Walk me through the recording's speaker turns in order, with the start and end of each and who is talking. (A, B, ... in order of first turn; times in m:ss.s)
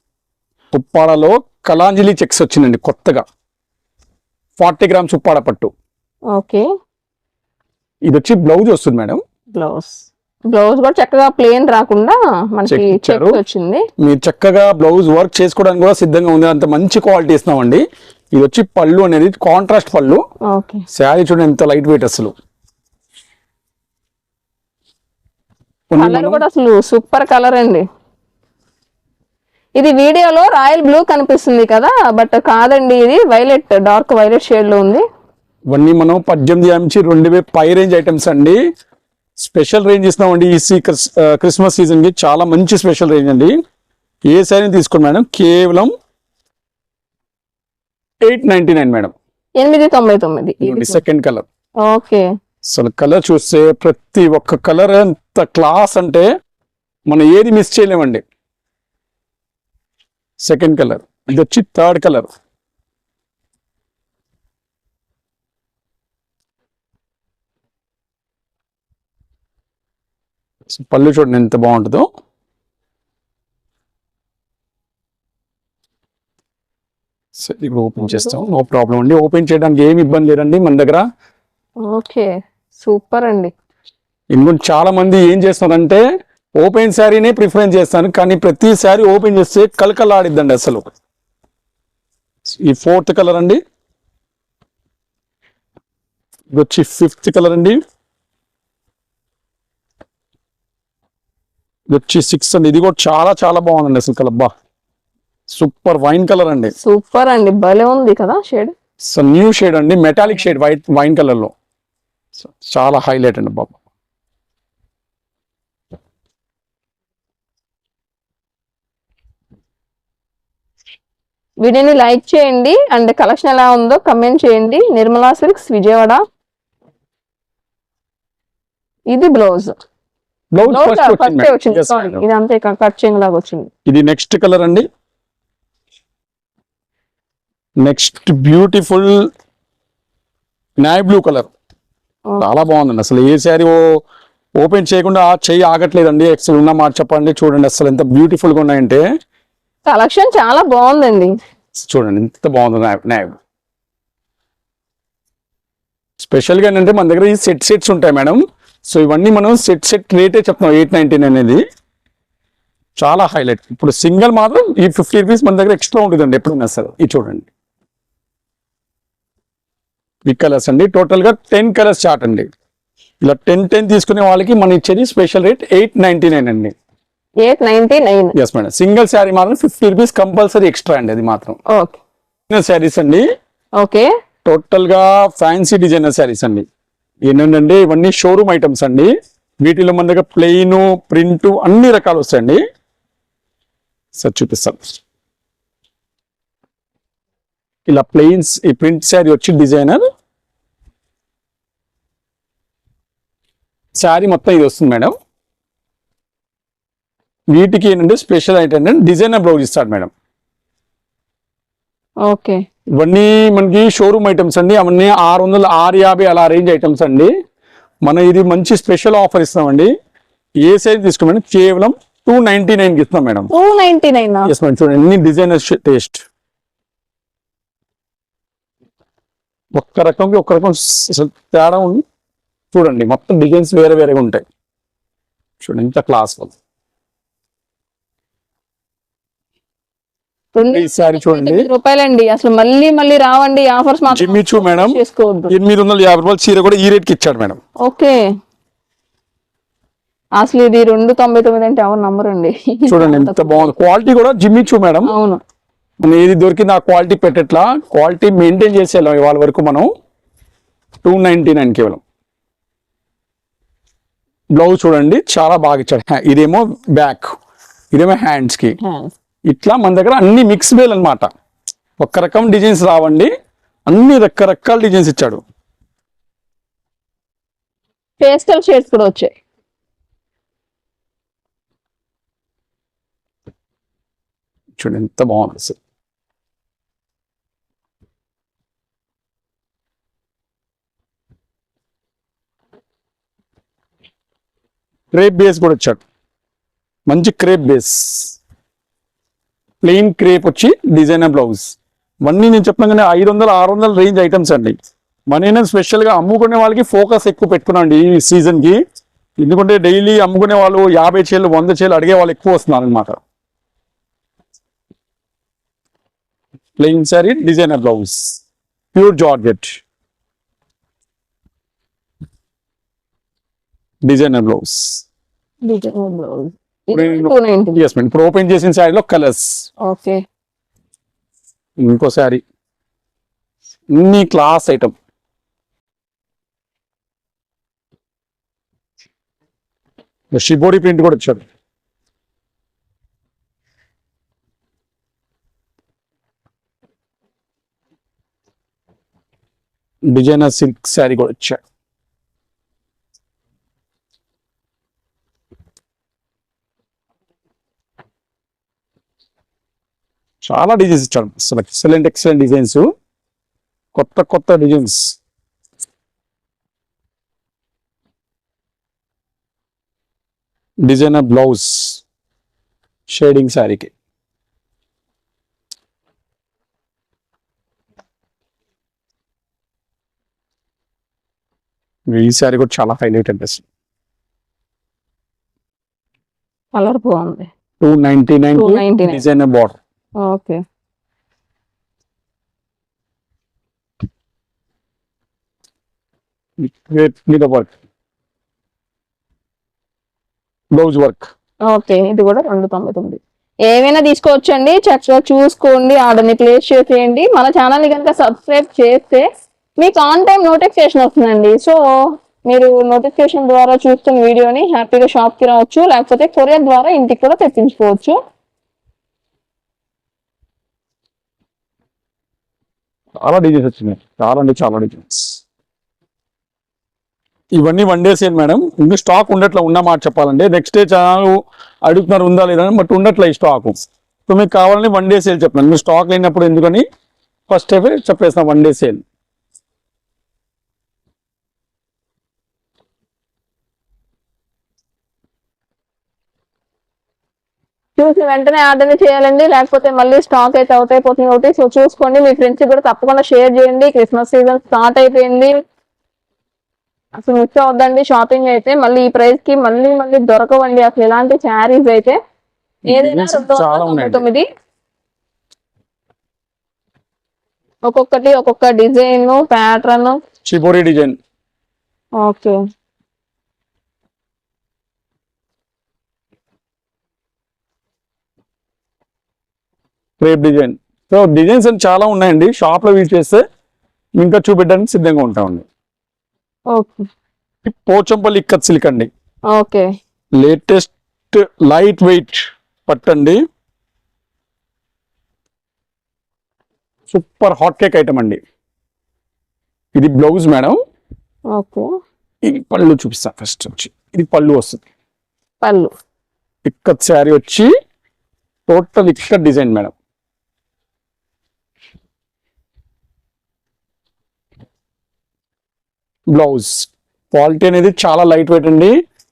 0:00.7-0:03.2 A
0:04.6-0:05.7 A
0:06.3-0:06.7 B
0:08.1-0:09.2 A
0:09.5-0:13.8 B
0:12.7-0:13.4 A
0:14.0-0:20.2 A
0:20.5-0:20.8 B
0:20.9-0:22.3 A
0:25.9-0:26.4 A
0:26.0-0:27.8 B
0:29.8-0:35.0 B
0:35.7-0:38.6 A
0:39.4-0:43.6 A
0:44.3-0:45.9 A
0:48.2-0:49.1 A
0:49.6-0:51.0 B
0:50.6-0:51.4 A
0:51.8-0:52.3 B
0:52.7-0:56.3 A
0:57.1-0:58.2 A
1:00.4-1:02.3 A
1:10.7-1:12.1 A
1:17.4-1:21.0 A
1:21.8-1:23.5 B
1:24.3-1:26.0 A
1:26.6-1:30.9 A
1:32.5-1:33.6 A
1:36.5-1:37.8 A
1:41.9-1:44.5 A
1:45.5-1:46.7 A
1:46.8-1:48.7 B
1:49.0-1:51.5 A
1:52.4-1:53.8 A
2:01.6-2:06.2 B
2:09.1-2:09.8 B
2:10.5-2:12.2 A
2:10.6-2:13.7 B
2:13.9-2:14.9 A
2:17.8-2:19.3 A
2:20.8-2:21.5 A
2:22.4-2:24.0 A
2:24.6-2:29.0 A
2:29.9-2:31.3 B
2:31.8-2:33.4 A
2:36.2-2:41.6 A
2:43.0-2:47.5 A
2:50.3-2:52.5 A
2:53.2-2:56.7 A
2:57.4-2:58.4 B
2:58.4-3:01.6 A
3:01.7-3:02.0 B
3:02.5-3:03.2 A
3:03.8-3:04.1 B
3:04.4-3:06.6 A
3:07.2-3:12.6 A
3:14.2-3:15.0 A
3:17.9-3:20.0 A
3:24.0-3:25.1 A
3:27.5-3:30.1 A
3:32.3-3:32.6 B
3:33.0-3:37.3 A
3:38.0-3:39.9 A
3:40.6-3:43.5 A
3:43.5-3:44.5 B
3:44.5-3:46.2 A
3:49.8-3:52.0 A
3:52.7-3:54.4 A
3:55.6-3:56.5 A
4:00.6-4:05.5 B
4:00.7-4:01.7 A
4:04.1-4:07.6 A
4:07.8-4:08.2 B
4:10.4-4:13.7 B
4:12.9-4:15.1 A
4:15.1-4:15.4 B
4:16.0-4:19.9 A
4:21.0-4:22.0 A
4:24.6-4:27.3 A
4:27.9-4:28.8 A
4:28.8-4:29.1 B
4:29.5-4:31.3 A
4:32.0-4:33.3 A
4:33.9-4:35.4 A
4:38.2-4:39.3 B
4:44.8-4:45.8 A
4:55.1-4:56.0 A
4:57.1-4:58.4 A
4:59.8-5:04.8 A
5:05.3-5:08.8 A
5:09.4-5:13.2 A
5:16.8-5:18.4 A
5:18.9-5:19.8 A
5:24.1-5:25.0 A
5:25.6-5:27.8 B
5:26.9-5:29.7 A
5:29.8-5:30.2 B
5:31.8-5:32.4 A
5:33.9-5:34.9 A
5:40.3-5:41.4 A
5:50.1-5:51.6 A
6:00.4-6:02.9 A
6:03.9-6:05.2 A
6:10.8-6:12.0 A
6:13.1-6:13.9 A
6:22.1-6:23.6 A
6:26.8-6:27.5 B
6:27.8-6:29.8 A
6:28.6-6:29.2 B
6:30.2-6:30.6 B
6:36.6-6:37.8 A
6:40.8-6:41.3 A
6:41.7-6:49.2 B
6:49.8-6:51.8 B
6:52.5-6:58.2 B
7:03.2-7:05.4 A
7:07.6-7:16.8 A
7:17.5-7:19.0 A
7:28.0-7:35.5 B
7:37.2-7:42.2 B
7:42.9-7:44.4 B
7:42.9-7:44.2 A
7:47.9-7:50.2 B
7:50.5-7:51.2 A
7:52.2-7:52.6 B
8:00.2-8:03.4 A
8:04.2-8:05.7 A
8:06.7-8:07.1 B
8:07.6-8:09.1 A
8:09.5-8:09.9 B
8:10.4-8:13.4 A
8:17.1-8:18.4 A
8:20.0-8:20.8 A
8:21.5-8:21.9 B
8:22.4-8:24.8 A
8:25.6-8:25.9 B
8:26.6-8:27.7 A
8:28.7-8:29.9 A
8:36.3-8:38.9 A